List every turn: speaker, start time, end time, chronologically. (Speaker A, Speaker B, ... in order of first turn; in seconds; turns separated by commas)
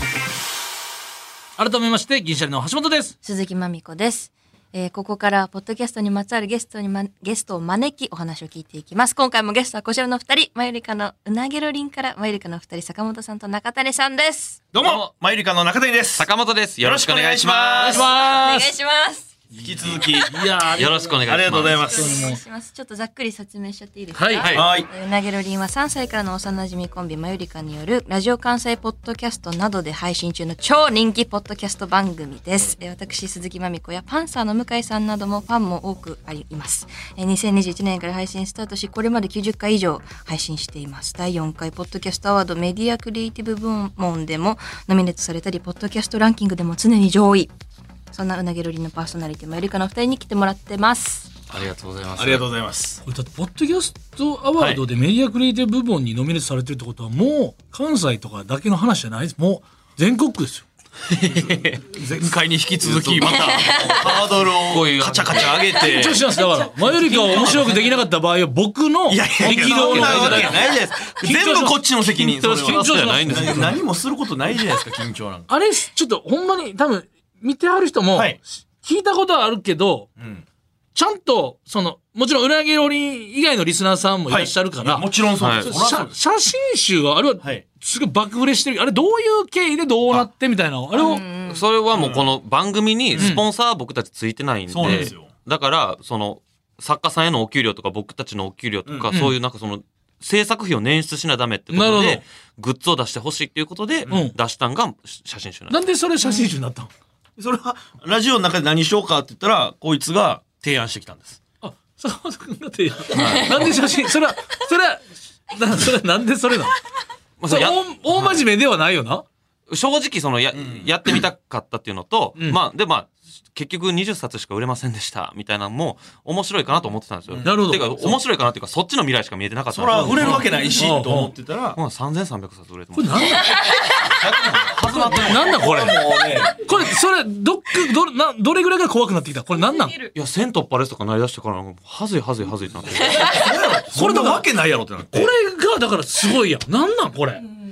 Speaker A: 1.6-3.1, Speaker B: 3.2-14.6, Speaker C: 14.7-16.3, Speaker D: 14.8-15.1, Speaker D: 16.1-18.0, Speaker C: 16.8-18.1, Speaker A: 17.8-18.7, Speaker B: 18.0-19.3, Speaker A: 19.5-22.4, Speaker C: 19.6-20.5, Speaker D: 20.7-21.9, Speaker C: 21.2-22.2, Speaker B: 21.6-47.5, Speaker A: 24.1-24.5, Speaker D: 24.4-24.7, Speaker C: 24.5-24.9, Speaker B: 48.1-51.3, Speaker D: 51.5-52.5, Speaker C: 52.1-53.0, Speaker A: 53.0-60.7, Speaker D: 61.1-61.8, Speaker C: 61.3-66.3, Speaker D: 62.8-65.8, Speaker B: 63.6-63.9, Speaker A: 65.8-73.8, Speaker C: 66.8-67.7, Speaker D: 67.3-67.7, Speaker C: 69.1-75.5, Speaker D: 69.5-70.6, Speaker D: 72.5-73.8, Speaker A: 75.5-80.1, Speaker C: 80.2-80.4, Speaker A: 80.9-85.1, Speaker C: 84.3-86.2, Speaker D: 85.4-85.8, Speaker A: 85.6-91.2, Speaker B: 90.9-91.6, Speaker D: 91.5-105.8, Speaker C: 91.9-92.3, Speaker C: 93.1-93.4, Speaker A: 93.2-93.4, Speaker C: 94.7-95.3, Speaker A: 99.1-99.3, Speaker A: 101.7-102.2, Speaker A: 104.1-104.3, Speaker A: 105.7-106.9, Speaker C: 107.4-111.4, Speaker A: 111.6-116.8, Speaker D: 113.1-113.7, Speaker D: 117.4-118.4, Speaker A: 117.5-119.2, Speaker D: 119.7-130.8, Speaker C: 120.5-121.1, Speaker C: 127.3-128.2, Speaker A: 127.4-128.2, Speaker C: 129.7-131.8, Speaker A: 130.0-131.3, Speaker D: 131.7-135.9, Speaker A: 132.9-133.6, Speaker C: 133.9-136.8, Speaker A: 134.9-136.0, Speaker A: 136.6-140.0, Speaker B: 139.5-140.1, Speaker D: 140.1-143.5, Speaker C: 143.2-145.3, Speaker A: 143.9-144.4, Speaker A: 145.1-147.4